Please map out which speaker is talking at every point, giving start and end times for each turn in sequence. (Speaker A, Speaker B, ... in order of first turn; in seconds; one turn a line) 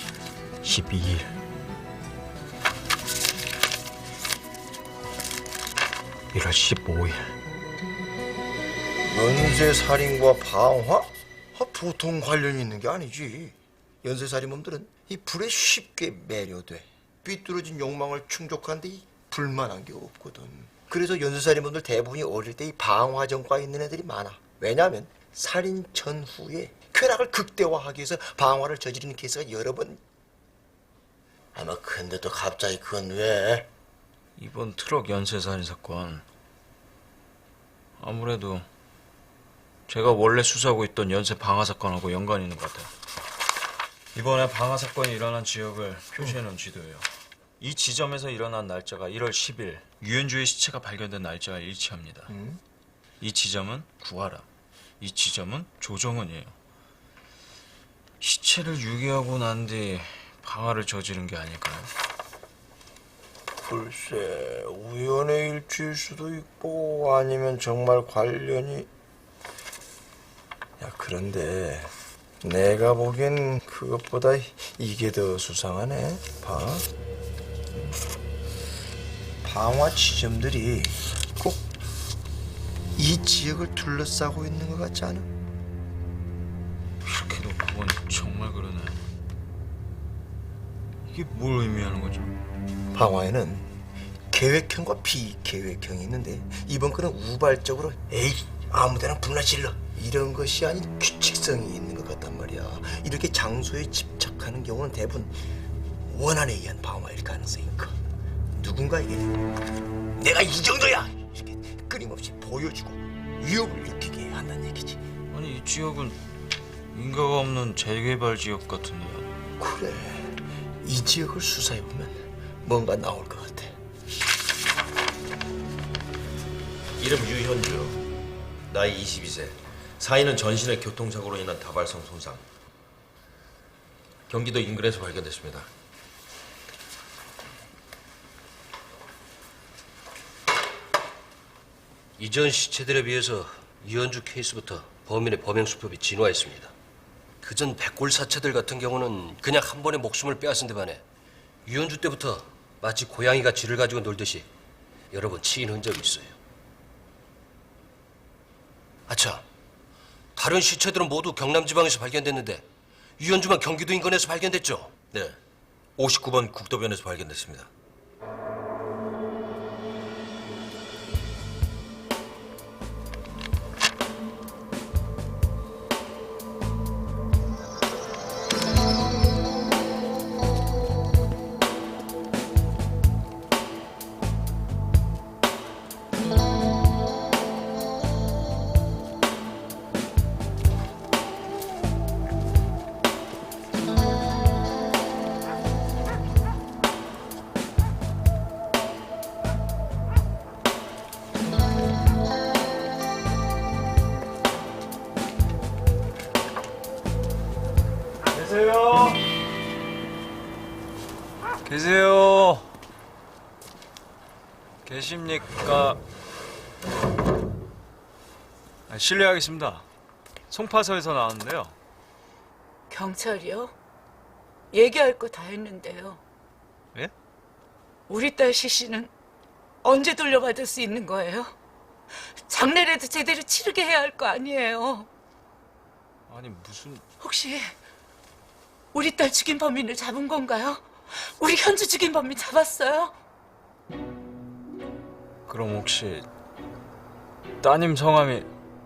Speaker A: 0.6-1.4
Speaker A: 6.3-7.3
Speaker B: 9.1-30.0
Speaker B: 31.5-33.7
Speaker A: 34.4-36.2
Speaker A: 38.0-38.7
Speaker A: 39.9-42.9
Speaker A: 44.1-47.1
Speaker A: 47.6-52.3
Speaker B: 52.3-52.6
Speaker A: 53.2-54.5
Speaker A: 55.0-56.5
Speaker A: 58.2-61.9
Speaker B: 63.6-68.9
Speaker B: 70.8-76.9
Speaker B: 79.4-81.7
Speaker B: 83.0-85.3
Speaker A: 87.0-89.0
Speaker A: 91.0-92.4
Speaker B: 92.9-93.7
Speaker B: 94.3-105.4
Speaker B: 106.1-108.0
Speaker B: 108.6-109.3
Speaker B: 110.2-115.0
Speaker A: 115.3-116.2
Speaker A: 116.9-119.3
Speaker B: 119.6-123.8
Speaker C: 127.0-128.0
Speaker C: 128.7-132.4
Speaker C: 134.3-135.7
Speaker D: 142.2-146.7
Speaker D: 147.4-151.0
Speaker D: 151.7-154.5
Speaker D: 155.1-156.4
Speaker D: 159.1-159.4
Speaker D: 160.4-162.7
Speaker D: 163.2-165.0
Speaker C: 165.1-165.4
Speaker C: 166.0-167.7
Speaker A: 208.3-209.2
Speaker A: 211.6-212.7
Speaker A: 214.8-216.0
Speaker A: 218.9-219.9
Speaker A: 220.5-221.8
Speaker E: 222.9-223.7
Speaker E: 224.7-226.2
Speaker E: 228.1-229.1
Speaker E: 229.8-231.5
Speaker E: 232.5-235.1
Speaker A: 236.3-237.1
Speaker E: 237.2-237.7
Speaker E: 238.9-243.1
Speaker A: 245.5-246.3
Speaker A: 247.6-248.5